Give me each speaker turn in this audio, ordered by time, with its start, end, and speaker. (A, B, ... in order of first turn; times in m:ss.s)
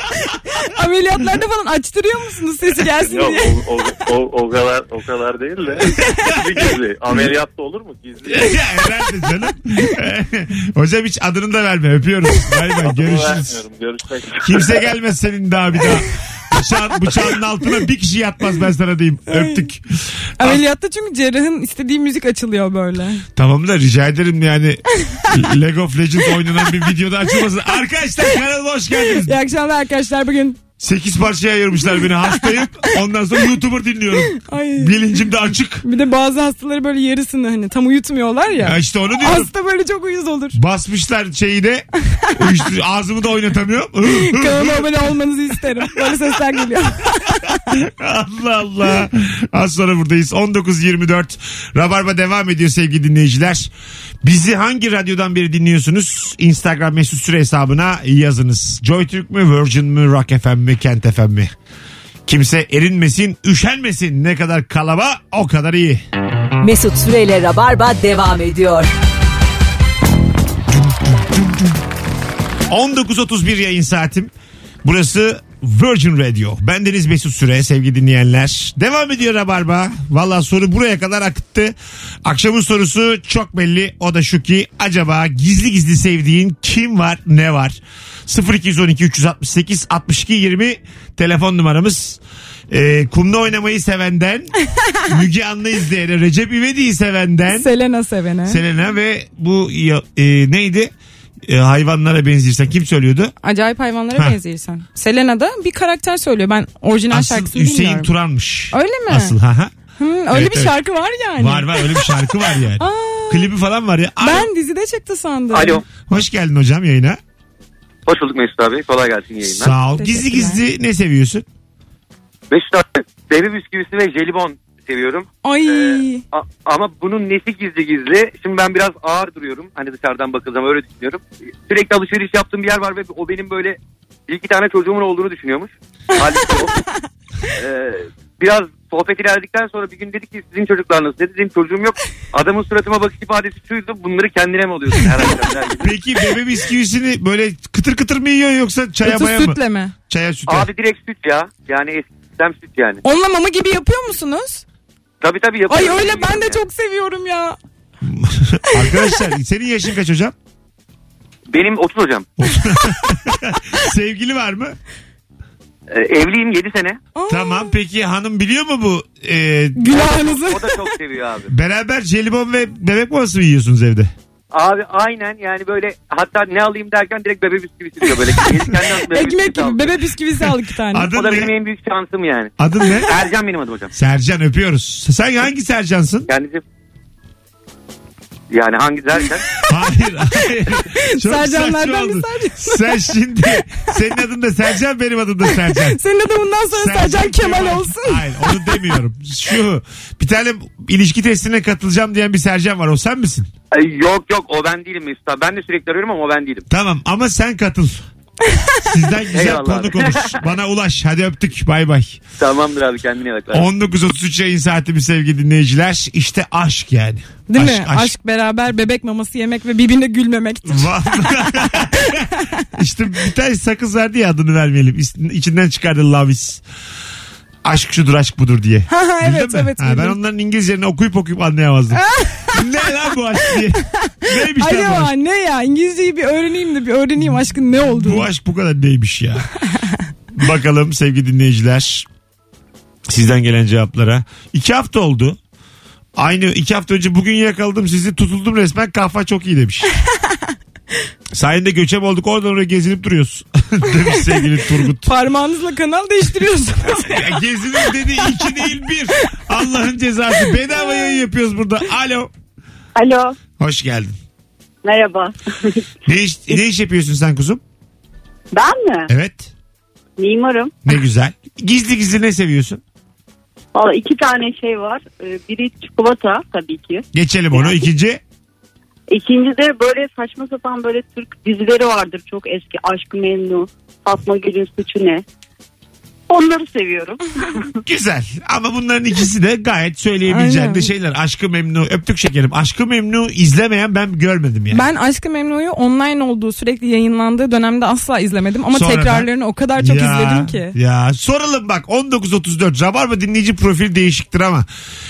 0:00.5-0:03.5 A
0:03.0-0:08.6 B
0:06.0-0:06.6 C
0:08.3-0:13.6 C
0:12.8-0:14.8 B
0:14.4-0:20.6 C
0:19.3-0:19.7 A
0:20.4-0:23.2 A
0:23.3-0:29.3 C
0:29.0-0:30.6 A
0:30.8-0:35.8 C
0:34.3-0:35.0 A
0:35.8-0:40.6 A
0:38.6-0:39.5 C
0:40.5-0:45.0 C
0:44.1-0:47.6 A
0:45.9-0:46.1 C
0:47.7-0:53.7 C
0:54.2-1:01.5 C
1:02.2-1:06.0 C
1:06.6-1:08.9 D
1:12.7-1:14.3 C
1:14.8-1:34.5 C
1:35.1-1:37.7 C
1:37.5-1:38.6 A
1:38.4-1:40.9 C
1:41.4-1:43.3 C
1:43.4-1:48.1 A
1:47.1-1:49.7 C
1:48.7-1:49.3 A
1:50.0-1:52.1 A
1:50.3-1:50.8 C
1:51.4-1:54.5 C
1:52.8-1:53.5 A
1:54.2-1:55.8 A
1:55.5-1:55.8 E
1:56.1-1:57.2 C
1:58.1-1:59.7 E
1:59.5-2:01.4 C
1:59.9-2:00.6 A
2:02.5-2:16.8 E
2:05.4-2:06.2 A
2:17.5-2:25.9 E
2:25.8-2:30.7 C
2:29.0-2:29.9 A
2:30.5-2:33.0 E
2:33.0-2:34.6 A
2:35.2-2:36.6 E
2:35.7-2:37.6 A
2:38.0-2:40.3 C
2:41.5-2:42.3 E
2:42.4-2:44.8 C
2:45.9-2:47.0 E
2:47.2-2:47.8 A
2:47.3-2:50.3 C
2:49.8-2:50.8 A
2:50.4-2:51.5 E
2:51.5-2:54.1 C
2:54.5-2:59.9 E
2:58.0-3:01.1 A
3:00.9-3:01.5 C
3:01.1-3:02.5 E
3:02.6-3:03.1 C
3:03.0-3:03.9 E
3:03.9-3:06.3 C
3:06.3-3:06.6 E
3:08.5-3:09.5 E
3:09.7-3:16.0 C
3:11.1-3:12.8 A
3:15.5-3:18.8 A
3:16.7-3:23.5 C
3:23.7-3:26.6 E
3:26.7-3:28.0 C
3:28.8-3:32.2 C
3:29.3-3:30.4 E
3:32.4-3:33.7 E
3:33.5-3:38.1 C
3:37.5-3:42.4 A
3:40.6-3:46.6 C
3:47.6-3:55.1 C
3:48.9-3:50.2 A
3:51.9-3:52.6 A
3:54.2-3:58.3 A
3:57.9-3:59.5 C
4:00.3-4:02.0 C
4:03.1-4:05.4 C
4:06.2-4:09.9 C
4:11.3-4:15.1 C
4:13.9-4:14.4 A
4:15.0-4:18.3 A
4:17.0-4:22.3 C
4:20.9-4:21.1 A
4:23.0-4:23.4 F
4:23.6-4:24.1 C
4:24.8-4:25.8 F
4:26.0-4:27.6 C
4:28.5-4:29.1 F
4:29.1-4:29.5 C
4:30.2-4:30.8 F
4:30.8-4:32.8 C
4:33.7-4:37.8 F
4:37.1-4:38.2 C
4:39.1-4:45.2 F
4:46.3-4:47.8 F
4:47.8-4:54.8 C
4:50.3-4:50.9 A
4:54.7-5:00.7 A
4:58.7-5:04.7 C